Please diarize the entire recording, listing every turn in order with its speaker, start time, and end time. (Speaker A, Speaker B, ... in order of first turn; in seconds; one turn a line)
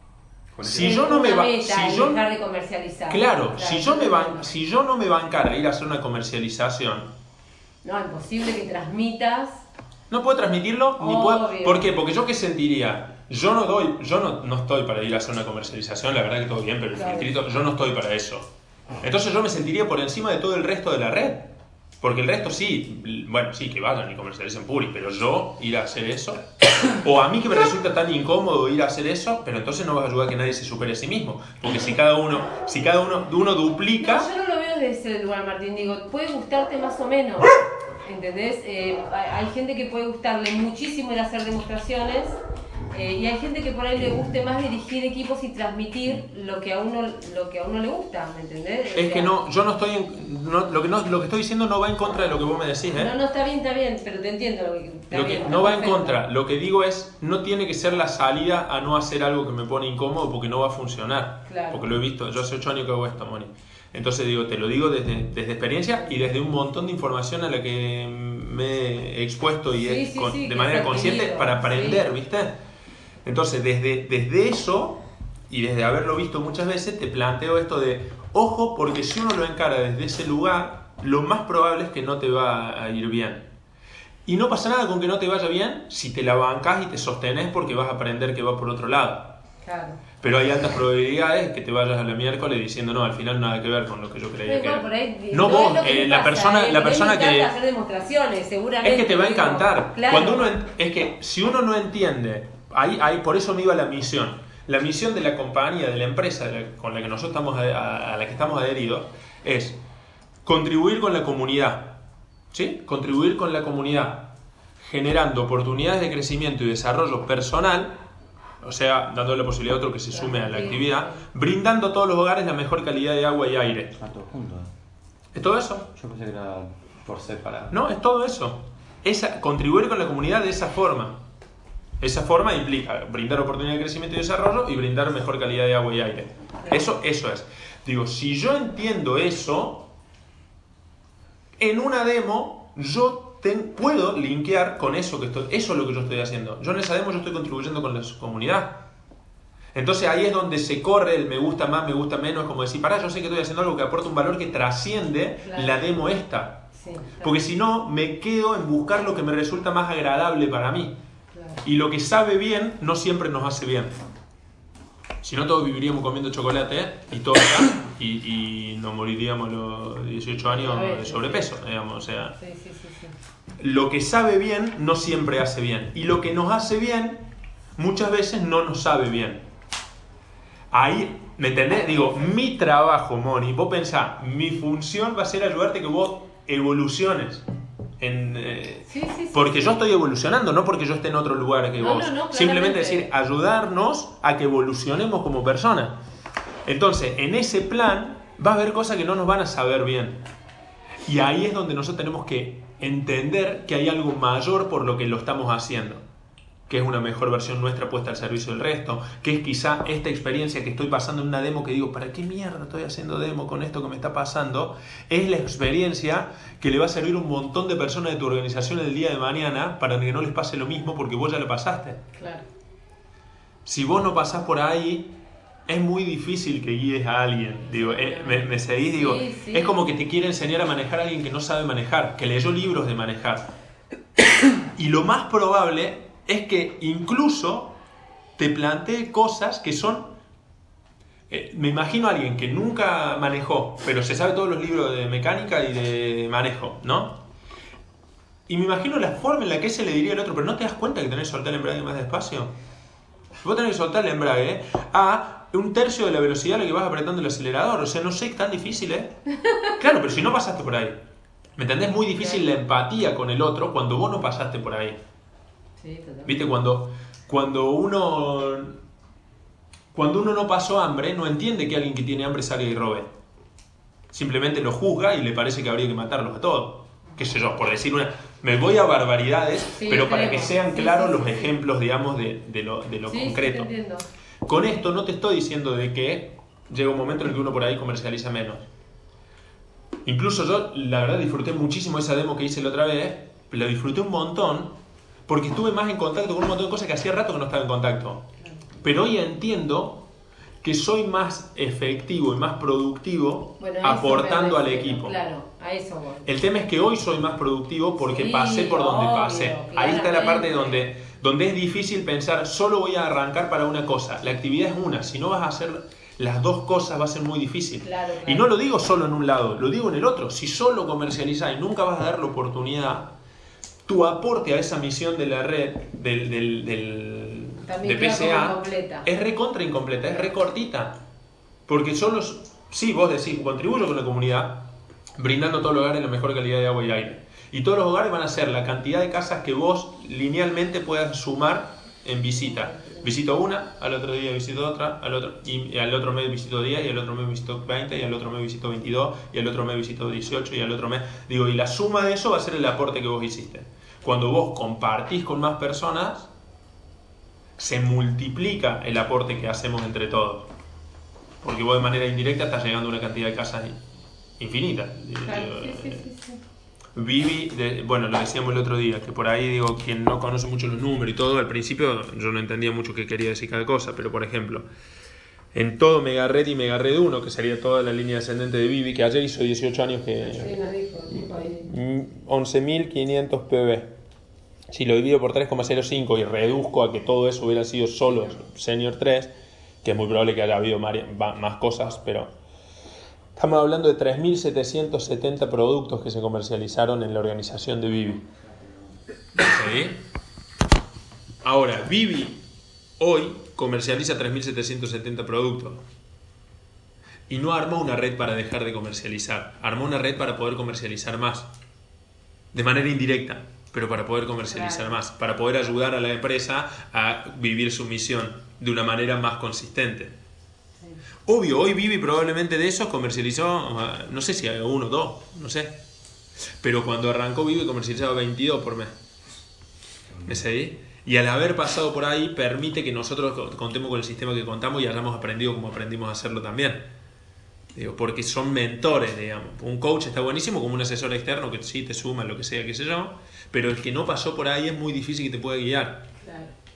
Speaker A: 0.6-0.9
Speaker B: 0.6-2.2
Speaker C: 0.7-4.5
Speaker B: 3.1-7.1
Speaker C: 7.8-9.6
Speaker B: 10.1-18.5
Speaker C: 11.0-11.9
Speaker C: 16.9-17.4
Speaker B: 19.0-34.3
Speaker C: 34.0-42.4
Speaker C: 42.9-49.3
Speaker B: 48.9-53.1
Speaker C: 53.0-56.2
Speaker B: 55.1-72.6
Speaker C: 61.5-61.9
Speaker C: 69.7-72.0
Speaker B: 73.2-83.5
Speaker B: 84.2-89.4
Speaker C: 89.6-90.0
Speaker B: 90.2-97.5
Speaker C: 94.5-100.6
Speaker B: 98.8-109.8
Speaker B: 110.4-112.0
Speaker B: 112.5-118.0
Speaker B: 118.6-124.0
Speaker C: 120.1-121.2
Speaker A: 124.0-124.7
Speaker B: 125.3-125.9
Speaker A: 125.9-127.7
Speaker B: 127.7-131.2
Speaker B: 132.0-139.9
Speaker B: 141.6-148.9
Speaker B: 149.7-156.7
Speaker C: 155.4-155.8
Speaker C: 156.7-157.4
Speaker B: 157.2-161.0
Speaker C: 161.3-161.6
Speaker B: 161.6-164.0
Speaker B: 165.2-172.3
Speaker C: 170.4-171.6
Speaker C: 172.3-173.1
Speaker B: 173.6-179.4
Speaker B: 180.7-187.4
Speaker B: 188.0-196.0
Speaker C: 188.9-189.7
Speaker C: 191.8-193.1
Speaker B: 196.6-200.2
Speaker B: 201.1-206.0
Speaker B: 206.7-222.0
Speaker C: 222.2-222.5
Speaker B: 223.7-233.5
Speaker C: 227.7-229.8
Speaker B: 234.7-237.8
Speaker B: 238.4-240.2
Speaker B: 241.3-247.2
Speaker B: 248.5-252.5
Speaker B: 253.4-259.1
Speaker B: 259.8-261.0
Speaker B: 261.6-265.0
Speaker C: 262.1-262.4
Speaker C: 265.8-266.5
Speaker B: 266.2-268.8
Speaker B: 269.9-273.1
Speaker B: 274.1-283.7
Speaker C: 279.8-281.6
Speaker C: 283.1-284.1
Speaker B: 284.4-288.6
Speaker B: 290.0-298.3
Speaker B: 298.8-300.1
Speaker B: 300.6-305.2
Speaker C: 303.6-306.3
Speaker B: 306.2-323.1
Speaker C: 308.0-310.8
Speaker C: 317.8-318.5
Speaker B: 323.9-331.0
Speaker C: 327.6-329.1
Speaker B: 331.7-356.3
Speaker C: 342.4-343.1
Speaker B: 357.6-360.5
Speaker B: 361.4-363.8
Speaker B: 364.4-366.1
Speaker C: 365.2-366.4
Speaker B: 366.9-374.7
Speaker B: 375.5-380.5
Speaker C: 380.3-381.7
Speaker B: 381.1-383.9
Speaker B: 384.7-392.3
Speaker B: 393.4-398.2
Speaker B: 399.4-400.0
Speaker B: 401.4-402.4
Speaker B: 403.0-405.8
Speaker B: 407.3-411.5
Speaker B: 412.5-420.1
Speaker C: 414.5-414.9
Speaker B: 421.2-425.8
Speaker B: 426.6-428.9
Speaker A: 430.1-430.4
Speaker B: 430.2-436.9
Speaker B: 437.7-446.1
Speaker C: 446.2-446.5